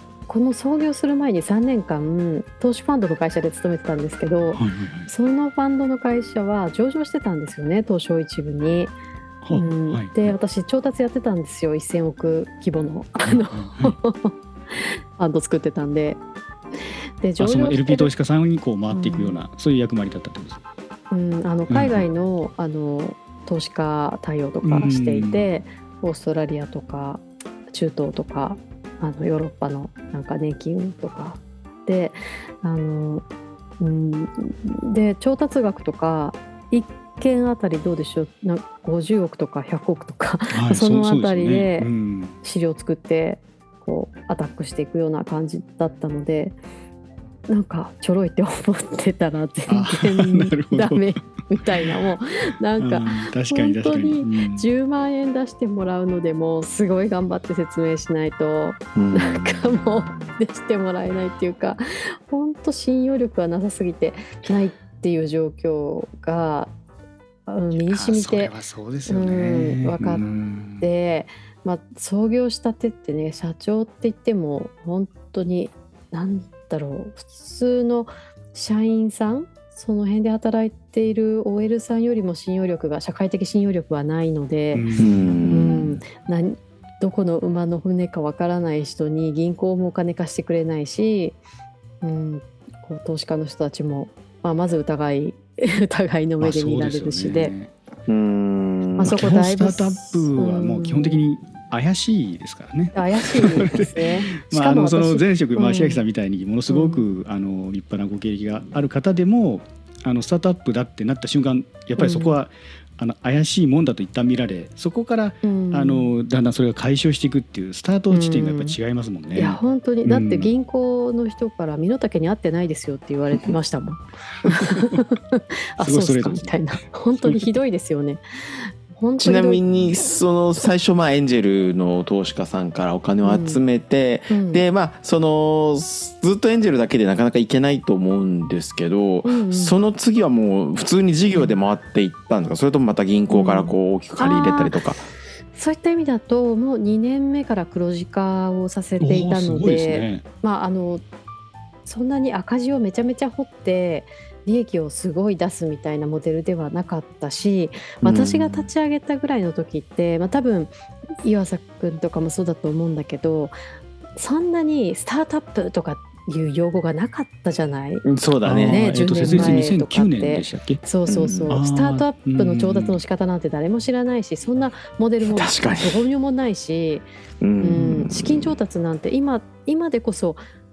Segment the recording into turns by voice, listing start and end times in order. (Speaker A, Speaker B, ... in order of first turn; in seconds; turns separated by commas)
Speaker A: 0.3-8.9, Speaker B: 4.5-5.1, Speaker B: 9.4-10.4, Speaker A: 9.5-16.2, Speaker B: 13.2-14.0, Speaker A: 17.2-18.1, Speaker B: 17.4-20.6, Speaker A: 18.9-19.4, Speaker A: 21.1-33.2, Speaker B: 21.7-22.1, Speaker B: 24.6-25.5, Speaker A: 33.8-41.9, Speaker B: 40.5-42.4, Speaker A: 42.4-46.6, Speaker A: 47.5-66.7, Speaker B: 49.7-51.1, Speaker B: 51.8-52.2, Speaker B: 52.8-54.7, Speaker C: 59.0-59.7, Speaker A: 67.5-68.5, Speaker B: 67.8-70.9, Speaker A: 69.1-70.2, Speaker A: 70.8-84.9, Speaker B: 84.7-85.6, Speaker C: 85.0-86.0, Speaker A: 85.5-91.4, Speaker A: 92.0-97.5, Speaker B: 96.4-97.7, Speaker C: 98.1-99.1, Speaker A: 99.0-101.2, Speaker B: 99.0-120.5, Speaker A: 102.9-106.0, Speaker A: 106.7-107.2, Speaker A: 112.0-112.4, Speaker A: 115.4-116.1, Speaker A: 118.1-118.8, Speaker A: 119.3-129.6, Speaker B: 124.5-125.0, Speaker B: 125.8-126.5, Speaker B: 127.2-127.5, Speaker C: 129.2-145.1, Speaker A: 133.2-133.6, Speaker A: 134.3-134.7, Speaker A: 139.2-139.8, Speaker A: 141.3-141.6, Speaker A: 143.3-144.8, Speaker A: 145.5-151.0, Speaker B: 149.0-150.2, Speaker A: 151.9-163.6, Speaker C: 158.0-158.7, Speaker A: 164.2-168.1, Speaker C: 168.1-169.6, Speaker B: 168.4-170.8, Speaker A: 168.7-177.1, Speaker C: 171.1-171.6, Speaker B: 171.5-173.0, Speaker C: 175.2-176.1, Speaker C: 177.4-178.6, Speaker A: 177.6-180.4